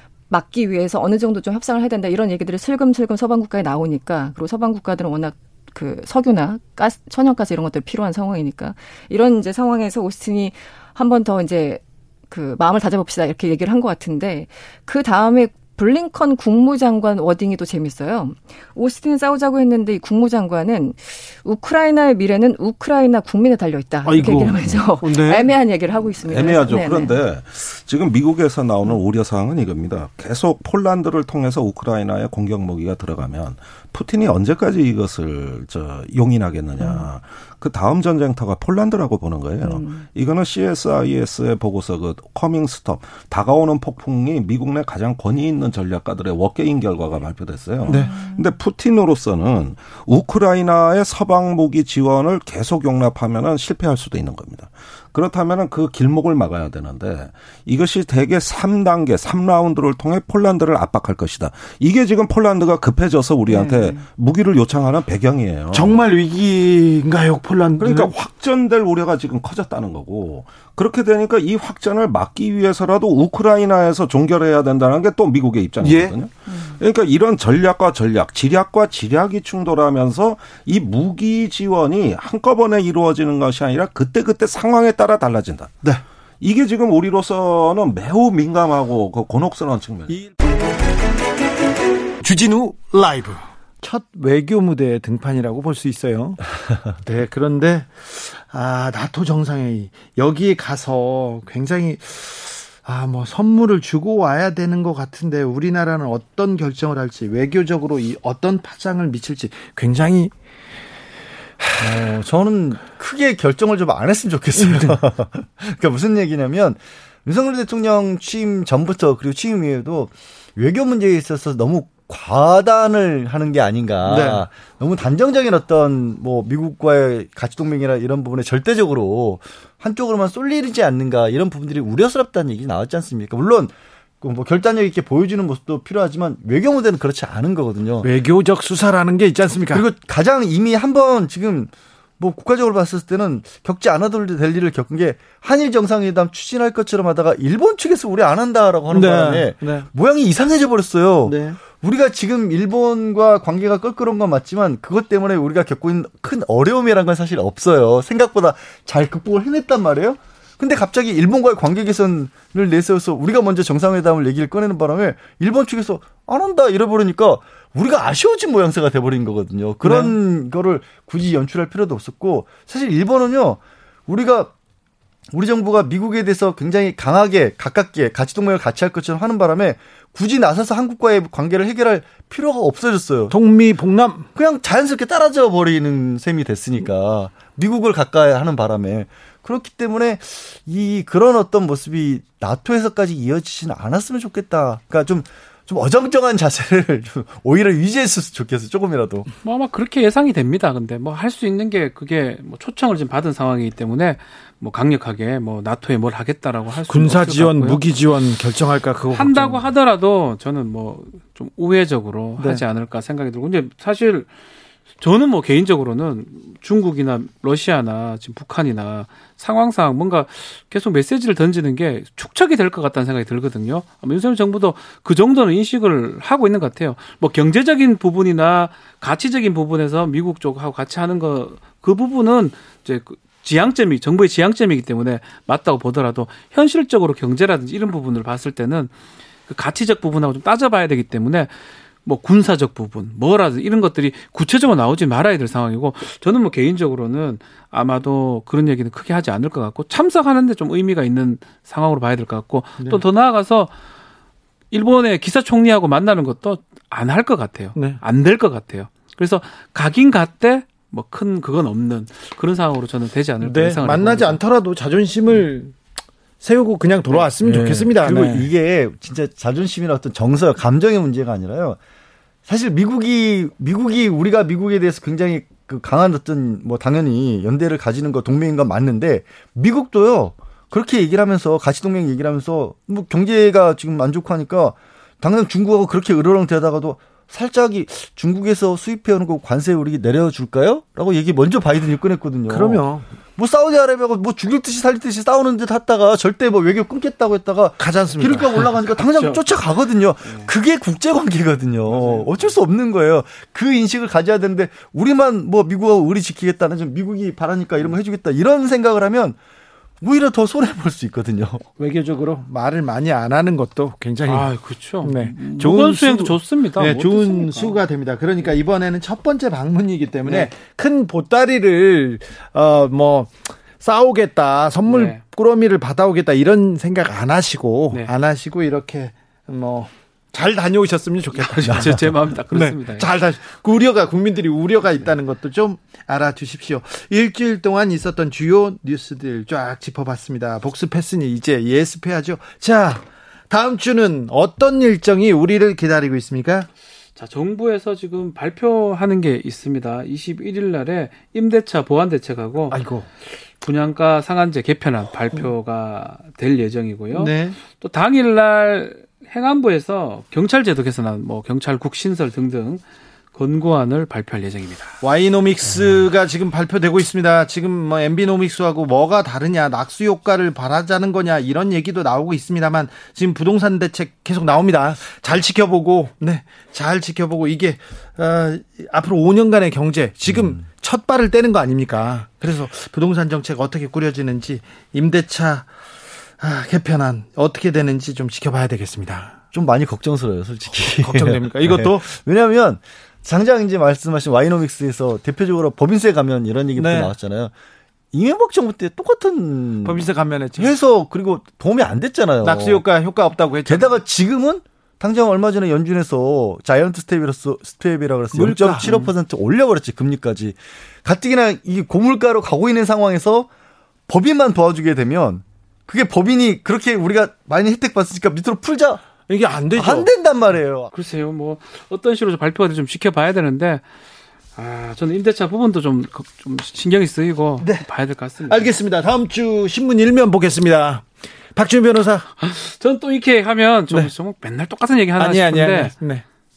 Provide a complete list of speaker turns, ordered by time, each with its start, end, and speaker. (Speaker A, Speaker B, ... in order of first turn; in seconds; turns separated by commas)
Speaker A: 0.3-27.2, Speaker B: 24.0-25.5, Speaker C: 26.2-66.0, Speaker A: 36.8-37.0, Speaker A: 39.6-40.1, Speaker B: 47.9-48.1, Speaker A: 47.9-48.3, Speaker A: 63.5-64.0, Speaker B: 65.7-68.1, Speaker C: 67.8-85.7, Speaker B: 75.8-76.1, Speaker A: 76.5-76.8, Speaker C: 86.4-90.3, Speaker B: 92.2-96.4, Speaker B: 97.0-110.3, Speaker B: 111.6-112.0, Speaker D: 111.8-138.1, Speaker B: 114.5-115.0, Speaker B: 124.0-124.5, Speaker B: 138.0-139.8, Speaker D: 139.7-174.5, Speaker B: 148.9-149.9, Speaker B: 151.2-151.6, Speaker B: 169.8-170.1, Speaker D: 175.3-183.3, Speaker B: 183.3-184.3, Speaker D: 184.3-199.3, Speaker E: 199.4-207.8, Speaker B: 206.9-209.7, Speaker E: 209.1-214.3, Speaker B: 212.4-212.6, Speaker E: 215.0-238.9, Speaker E: 239.5-241.5, Speaker E: 242.0-253.7, Speaker E: 254.7-264.4, Speaker B: 263.4-265.8, Speaker B: 266.4-268.5, Speaker E: 267.1-267.9, Speaker D: 268.0-271.8, Speaker D: 272.4-292.8, Speaker B: 292.5-293.1, Speaker D: 293.4-309.4, Speaker B: 297.8-298.7, Speaker E: 298.6-299.6, Speaker E: 300.2-300.5, Speaker B: 301.9-302.2, Speaker D: 310.0-311.7, Speaker B: 311.8-314.5, Speaker E: 314.2-317.8, Speaker B: 315.0-346.7, Speaker E: 324.8-325.2, Speaker E: 331.3-333.1, Speaker E: 347.1-362.8, Speaker B: 352.7-353.1, Speaker B: 357.1-357.6, Speaker E: 363.3-365.0, Speaker B: 365.0-385.7, Speaker B: 386.4-389.4, Speaker D: 389.5-397.5, Speaker B: 390.9-392.1, Speaker B: 396.8-397.1, Speaker D: 398.1-402.8, Speaker B: 399.8-400.7, Speaker B: 402.4-404.0, Speaker D: 403.6-413.5, Speaker B: 408.3-409.1, Speaker D: 414.1-419.1, Speaker B: 419.3-420.1, Speaker D: 419.7-420.9, Speaker E: 420.9-423.8, Speaker E: 424.6-428.7, Speaker B: 427.6-427.8, Speaker B: 428.5-432.3, Speaker E: 432.4-435.9, Speaker B: 435.2-436.2